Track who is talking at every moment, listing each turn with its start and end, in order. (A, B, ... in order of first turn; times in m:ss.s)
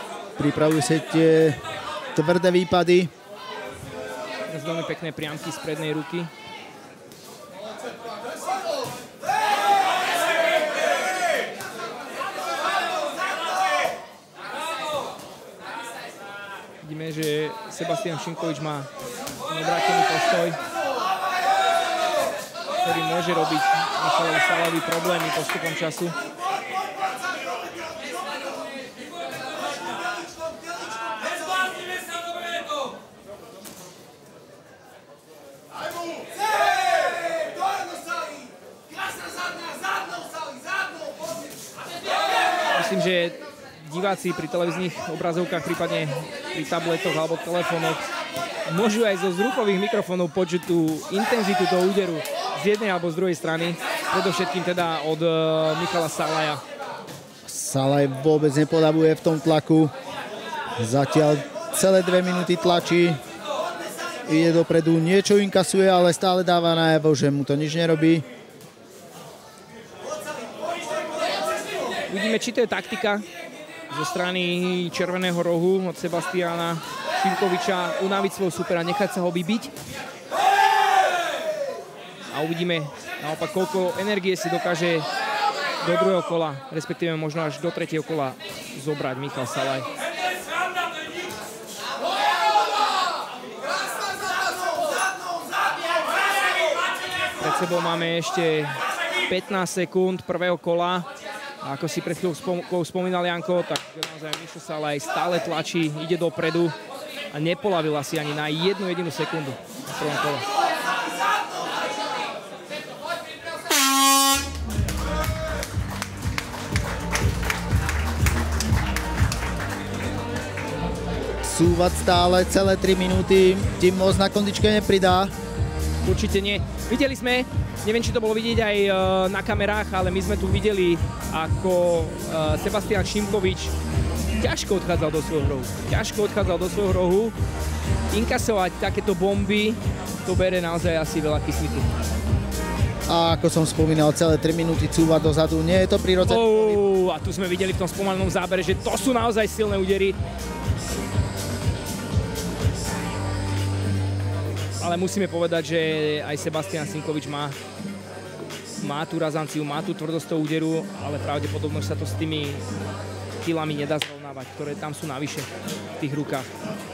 0:00.4-0:01.6 A
0:02.1-0:03.1 A
0:04.5-0:06.3 B
0:16.8-0:18.9 B
0:19.5-0:20.6 B
0:22.8-0:26.1 B
0:42.7-0:48.0 B
0:48.7-0:56.6 B
0:57.4-0:59.9 A
1:00.8-1:03.2 A
1:04.2-1:08.2 A
1:12.1-1:13.3 B
1:13.9-1:19.7 B
1:22.3-1:25.1 B
1:25.8-1:29.9 B
1:37.4-1:41.1 B
1:41.6-1:46.7 B
1:47.3-1:50.4 B
2:01.4-2:05.3 A
2:06.0-2:13.7 B
2:14.4-2:17.3 B
2:18.1-2:21.9 B
2:23.1-2:26.8 A
2:26.2-2:30.2 B
2:34.8-2:37.6 B
2:38.8-2:42.6 B
2:43.4-2:46.5 B